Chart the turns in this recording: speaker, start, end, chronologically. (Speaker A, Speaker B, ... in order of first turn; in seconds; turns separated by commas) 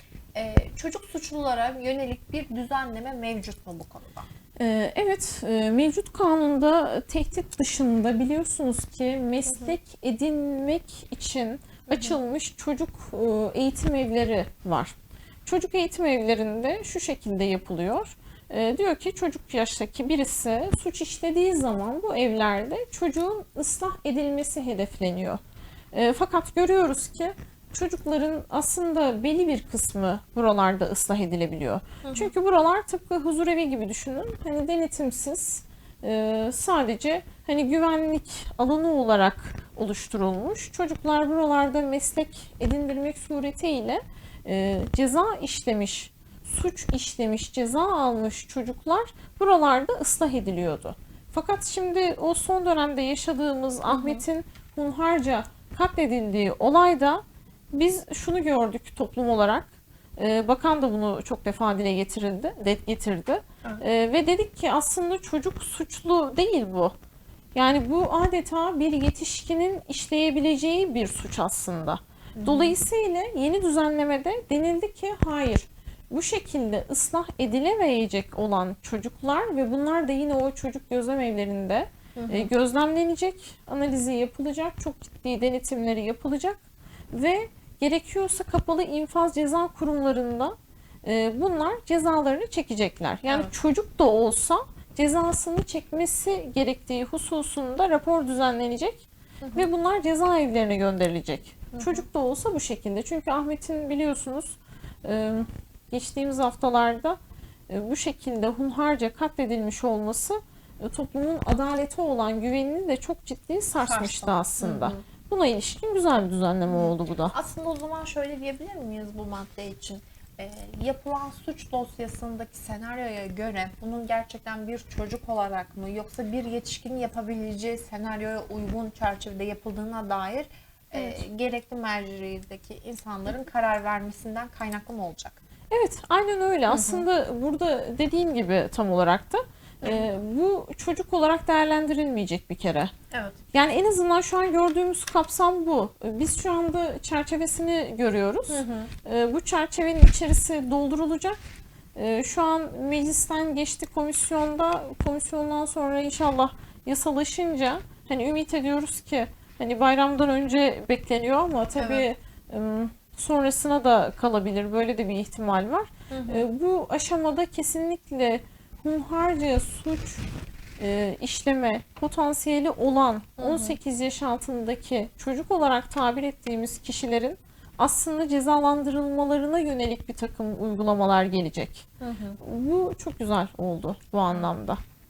Speaker A: 0.3-4.2, Speaker B: 4.6-14.9, Speaker A: 9.5-9.8, Speaker A: 11.9-12.2, Speaker B: 15.5-25.4, Speaker B: 25.9-66.9, Speaker A: 32.0-32.3, Speaker A: 53.9-54.2, Speaker B: 67.5-86.6, Speaker A: 72.4-72.8, Speaker A: 82.2-82.5, Speaker B: 87.1-117.3, Speaker A: 99.4-99.7, Speaker A: 101.7-102.1, Speaker A: 113.8-115.0, Speaker A: 116.7-135.4, Speaker B: 130.9-131.2, Speaker B: 135.7-142.9, Speaker A: 136.7-137.1, Speaker A: 139.8-140.1, Speaker A: 143.1-143.4, Speaker B: 143.5-151.4, Speaker A: 148.5-148.9, Speaker B: 151.9-170.2, Speaker A: 161.8-162.1, Speaker A: 166.1-166.4, Speaker B: 170.8-181.9, Speaker A: 173.4-173.8, Speaker A: 182.0-182.4, Speaker B: 182.4-184.8